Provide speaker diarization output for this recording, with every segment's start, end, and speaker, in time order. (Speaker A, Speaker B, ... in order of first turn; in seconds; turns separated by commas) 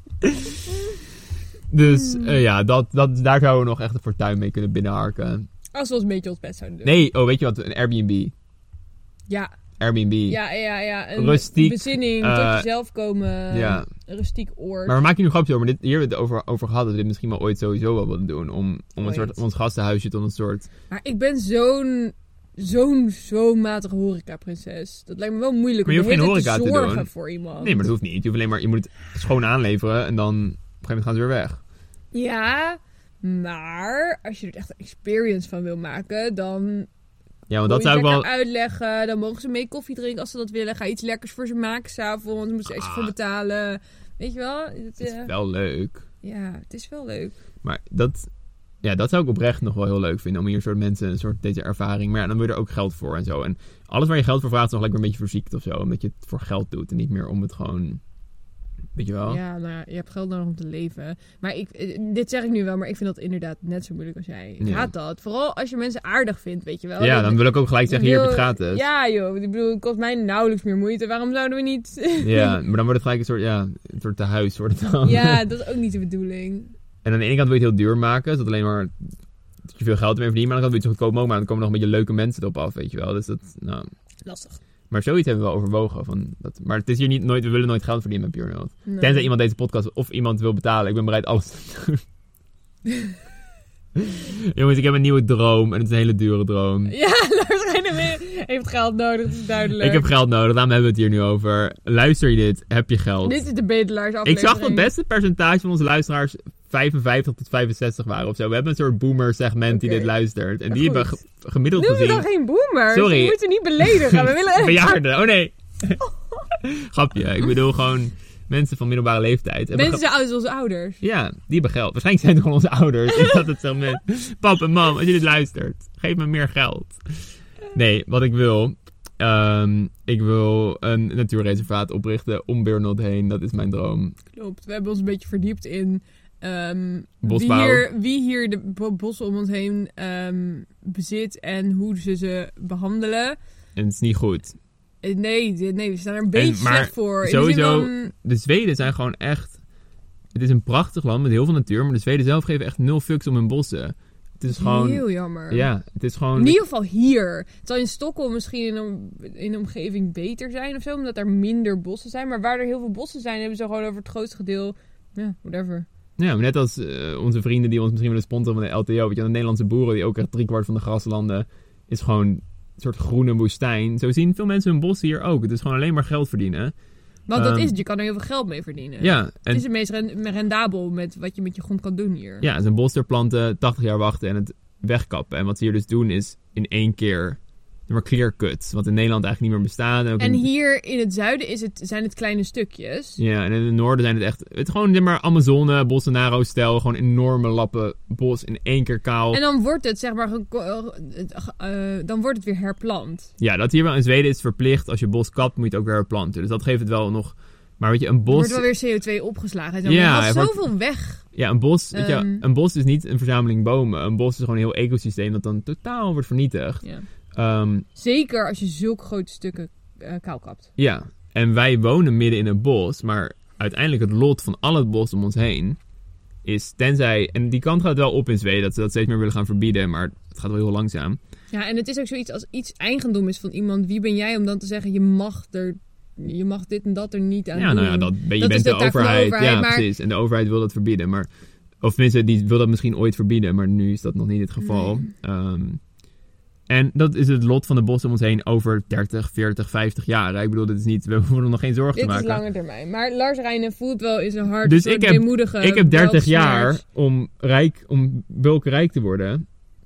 Speaker A: 0.2-0.6, Speaker A: 1.7-5.5, Speaker B: 2.0-2.4, Speaker B: 5.8-7.0, Speaker A: 6.8-8.3, Speaker A: 9.8-10.4, Speaker B: 10.3-15.0, Speaker A: 11.2-12.7, Speaker A: 13.5-13.9, Speaker A: 14.9-20.7, Speaker B: 19.0-19.4, Speaker B: 20.9-27.8, Speaker A: 25.9-27.1, Speaker A: 27.6-31.6, Speaker B: 32.1-36.9, Speaker A: 37.5-38.3, Speaker B: 37.6-45.3, Speaker A: 42.7-43.1, Speaker A: 45.0-46.0, Speaker B: 46.2-47.4, Speaker A: 47.6-48.3, Speaker A: 48.8-58.0, Speaker A: 59.0-59.4, Speaker B: 59.3-72.6, Speaker A: 64.6-64.9, Speaker A: 67.0-68.8, Speaker A: 72.2-75.4, Speaker B: 75.0-76.7, Speaker A: 77.0-78.9, Speaker A: 79.7-83.9, Speaker B: 84.2-84.6, Speaker A: 84.9-92.0, Speaker B: 88.9-89.3, Speaker A: 94.0-96.9, Speaker B: 96.9-100.1, Speaker A: 99.8-103.4, Speaker B: 103.2-104.9, Speaker A: 104.2-112.3, Speaker B: 109.7-110.1, Speaker B: 110.7-111.2, Speaker B: 111.8-115.0, Speaker A: 112.9-120.0, Speaker B: 119.7-121.0, Speaker A: 121.0-134.2, Speaker B: 134.3-143.4, Speaker A: 137.2-137.9, Speaker A: 143.8-144.6, Speaker B: 145.0-148.1, Speaker A: 146.3-149.6, Speaker A: 150.3-156.6, Speaker B: 154.5-155.7, Speaker B: 156.4-165.9, Speaker A: 166.2-176.7, Speaker B: 177.3-182.4, Speaker A: 177.3-177.7, Speaker A: 179.0-179.6, Speaker A: 182.4-190.5, Speaker B: 190.2-193.2, Speaker A: 193.2-199.4, Speaker B: 199.3-203.3, Speaker A: 203.4-208.7, Speaker B: 208.3-211.2, Speaker A: 209.8-210.7, Speaker A: 211.3-216.8, Speaker B: 211.9-212.4, Speaker A: 217.3-217.9, Speaker B: 218.0-220.7, Speaker A: 220.8-225.8, Speaker A: 226.4-231.2, Speaker B: 231.5-239.9, Speaker A: 237.6-241.3, Speaker A: 241.8-245.8, Speaker B: 244.6-245.1, Speaker A: 246.7-252.4, Speaker B: 251.9-256.8, Speaker A: 254.6-259.4